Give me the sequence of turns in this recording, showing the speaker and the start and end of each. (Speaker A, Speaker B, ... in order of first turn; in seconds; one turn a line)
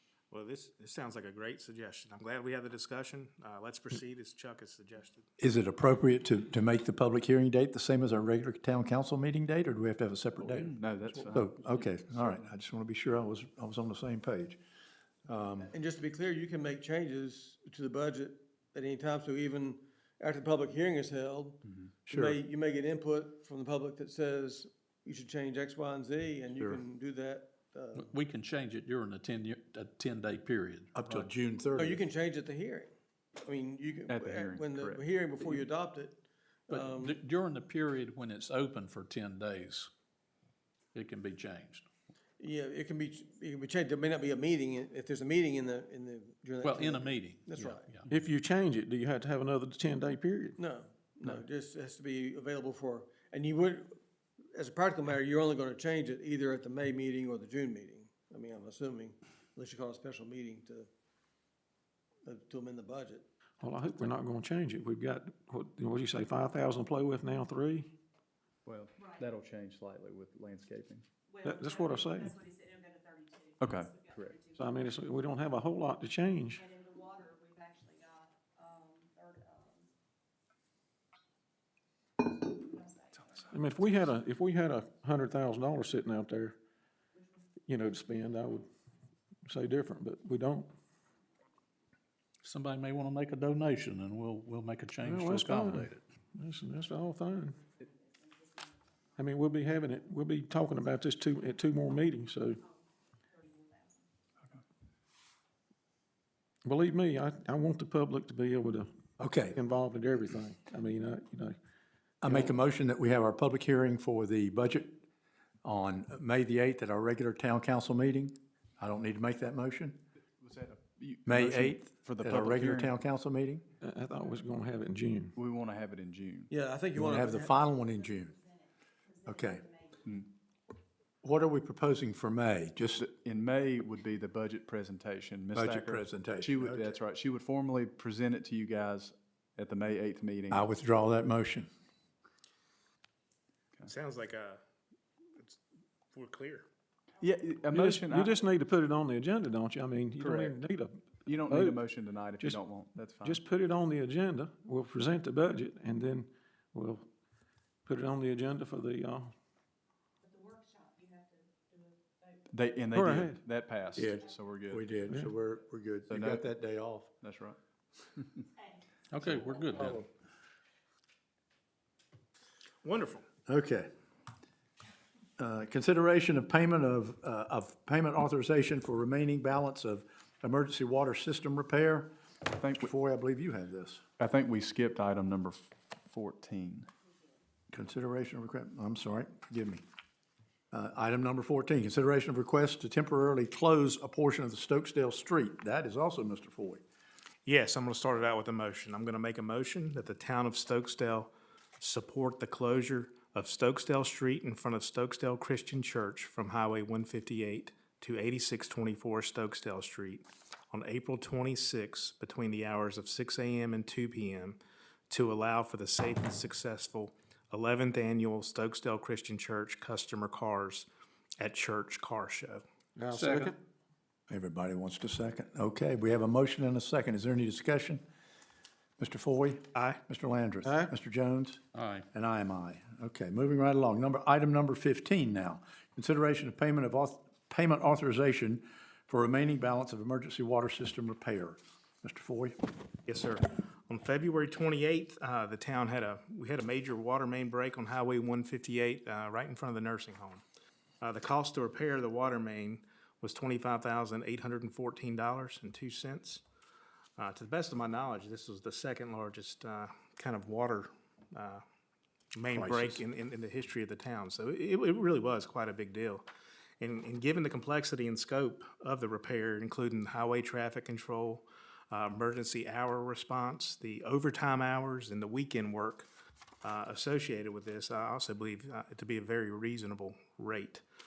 Speaker A: 0.3-5.3
Speaker B: 5.4-14.6
Speaker C: 10.4-12.0
Speaker B: 15.2-15.7
Speaker D: 15.7-28.1
Speaker C: 21.6-21.9
Speaker B: 22.1-22.4
Speaker E: 27.9-31.3
Speaker B: 30.9-32.0
Speaker D: 31.8-37.2
Speaker C: 34.1-35.0
Speaker E: 36.7-39.9
Speaker E: 40.9-41.9
Speaker D: 42.4-47.9
Speaker E: 46.6-48.1
Speaker F: 48.1-50.5
Speaker D: 50.6-54.0
Speaker D: 54.5-60.9
Speaker D: 62.2-63.2
Speaker F: 63.6-67.9
Speaker C: 68.6-71.0
Speaker G: 71.3-74.7
Speaker F: 71.4-72.4
Speaker C: 73.6-74.4
Speaker F: 74.6-76.6
Speaker G: 76.5-79.9
Speaker G: 82.3-83.5
Speaker F: 83.5-86.6
Speaker F: 87.7-88.7
Speaker F: 89.5-90.7
Speaker E: 92.4-96.0
Speaker F: 95.0-97.6
Speaker G: 97.6-99.2
Speaker F: 99.2-102.6
Speaker G: 103.3-104.0
Speaker F: 106.6-108.9
Speaker B: 109.2-109.5
Speaker F: 109.5-111.6
Speaker B: 112.2-115.0
Speaker B: 115.6-120.0
Speaker C: 120.4-122.9
Speaker B: 121.2-123.6
Speaker F: 123.8-125.3
Speaker C: 125.3-126.5
Speaker D: 126.5-127.5
Speaker B: 126.9-128.3
Speaker G: 127.7-130.0
Speaker B: 129.2-129.6
Speaker C: 130.0-130.3
Speaker B: 131.2-133.1
Speaker C: 133.0-140.7
Speaker B: 135.5-136.9
Speaker B: 140.5-141.7
Speaker A: 143.9-144.6
Speaker A: 146.1-146.7
Speaker C: 147.2-148.3
Speaker F: 147.7-151.8
Speaker C: 150.2-150.6
Speaker C: 151.2-153.4
Speaker F: 153.2-157.1
Speaker F: 157.8-159.3
Speaker G: 160.2-162.5
Speaker C: 162.5-164.9
Speaker F: 162.9-163.4
Speaker B: 163.9-167.1
Speaker F: 165.1-165.3
Speaker C: 166.1-166.5
Speaker C: 167.2-167.6
Speaker E: 169.1-170.0
Speaker G: 169.4-169.8
Speaker A: 172.8-173.2
Speaker B: 173.5-173.9
Speaker B: 175.4-182.1
Speaker C: 182.6-182.9
Speaker B: 182.7-184.0
Speaker C: 184.2-186.9
Speaker B: 187.7-189.8
Speaker B: 190.7-196.8
Speaker A: 197.4-214.6
Speaker A: 215.1-220.9
Speaker A: 221.4-222.6
Speaker F: 222.9-223.5
Speaker E: 223.1-223.6
Speaker B: 224.3-228.0
Speaker B: 229.0-242.6
Speaker A: 229.7-230.0
Speaker F: 230.6-230.9
Speaker E: 231.7-232.1
Speaker A: 243.1-250.4
Speaker A: 251.0-256.4
Speaker A: 257.2-261.6
Speaker A: 262.3-266.2
Speaker B: 262.5-263.0
Speaker A: 266.8-276.1
Speaker A: 276.6-280.8